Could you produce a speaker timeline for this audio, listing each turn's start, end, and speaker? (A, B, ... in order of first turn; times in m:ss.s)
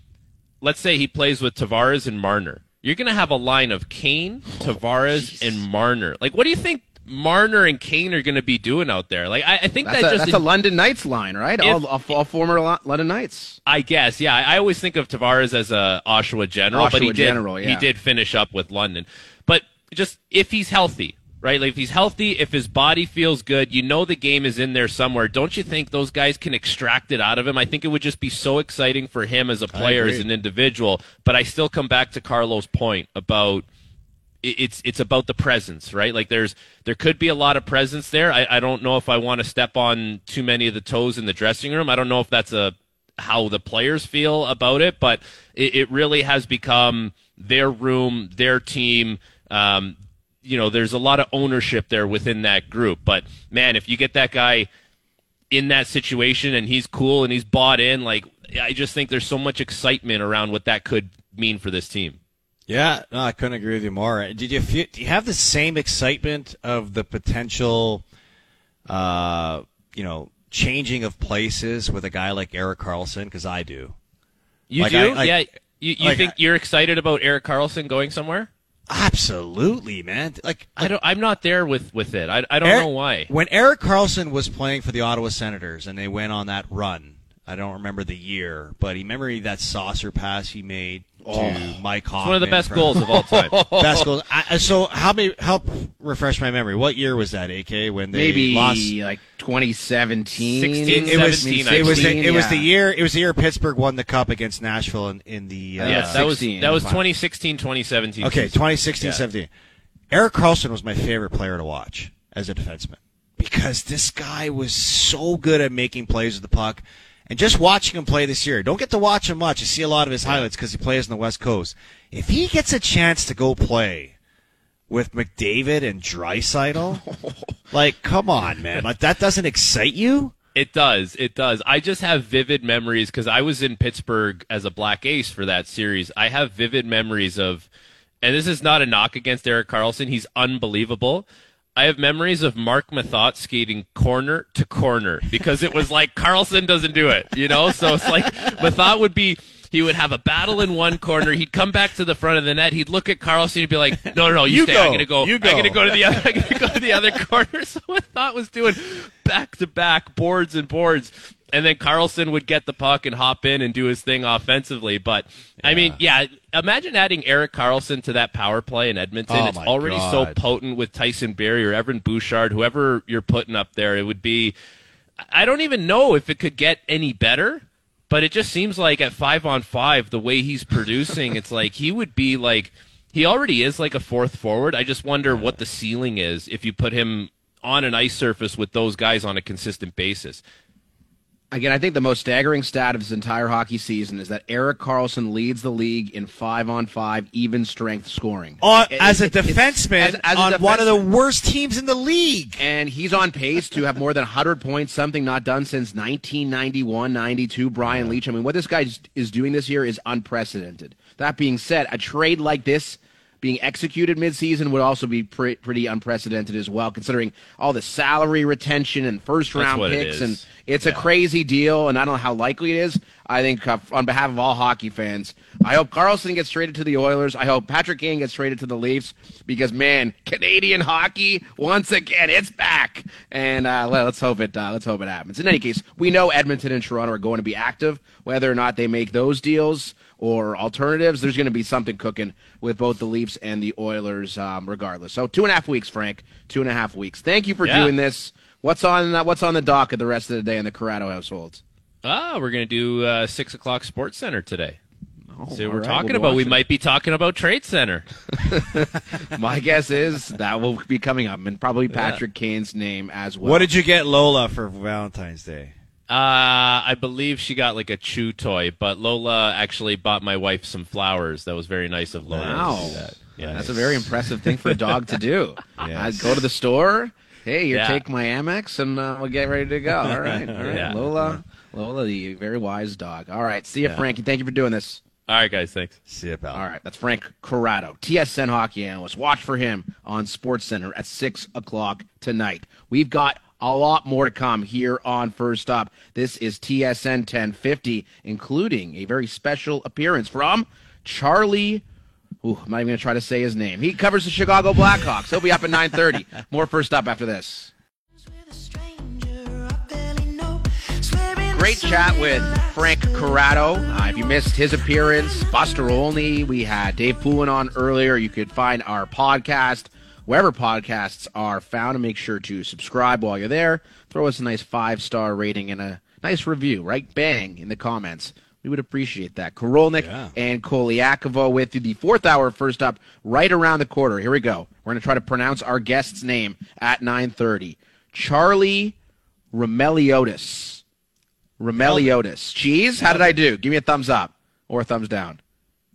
0:00.6-0:10.4 A
0:09.8-0:13.6 B
0:13.7-0:33.6 A
0:16.7-0:17.9 B
0:29.7-0:30.3 C
0:34.4-0:54.7 A
0:55.5-1:02.2 A
1:02.7-1:08.0 C
1:08.9-1:14.0 C
1:14.7-1:18.5 A
1:14.8-1:15.4 C
1:16.0-1:16.3 C
1:18.9-1:20.9 C
1:20.8-1:23.3 A
1:22.6-1:33.0 C
1:31.2-1:31.8 B
1:32.2-1:33.7 A
1:33.0-1:33.9 B
1:33.7-1:38.9 C
1:38.1-1:42.7 B
1:40.4-1:42.3 A
1:40.8-1:46.3 C
1:45.8-1:47.0 B
1:45.8-1:49.2 A
1:48.2-1:49.5 C
1:50.1-2:04.1 C
2:04.9-2:07.0 C
2:07.7-2:10.3 C
2:10.5-2:17.7 A
2:18.2-2:54.5 A
2:33.9-2:36.9 C
2:45.6-2:46.0 C
2:49.3-2:50.4 C
2:55.3-3:10.4 A
3:05.3-3:05.6 C
3:11.5-3:21.0 B
3:18.6-3:22.6 C
3:22.6-4:11.6 B
3:39.5-3:41.0 A
4:07.6-4:07.9 A
4:12.0-4:14.8 A
4:15.3-4:16.6 B
4:15.5-4:18.0 A
4:18.4-4:23.7 B
4:23.4-4:25.7 C
4:26.1-4:34.0 A
4:32.3-4:33.9 C
4:32.4-4:45.0 B
4:35.8-4:36.2 C
4:37.7-4:38.0 A
4:40.0-4:41.3 C
4:40.6-4:40.9 A
4:45.3-4:46.0 A
4:46.1-4:46.6 C
4:46.5-5:01.8 B
5:02.4-5:07.7 B
5:11.4-5:39.0 B
5:30.0-5:30.3 C
5:39.5-5:40.8 B
5:41.6-5:45.4 B
5:41.8-5:42.1 C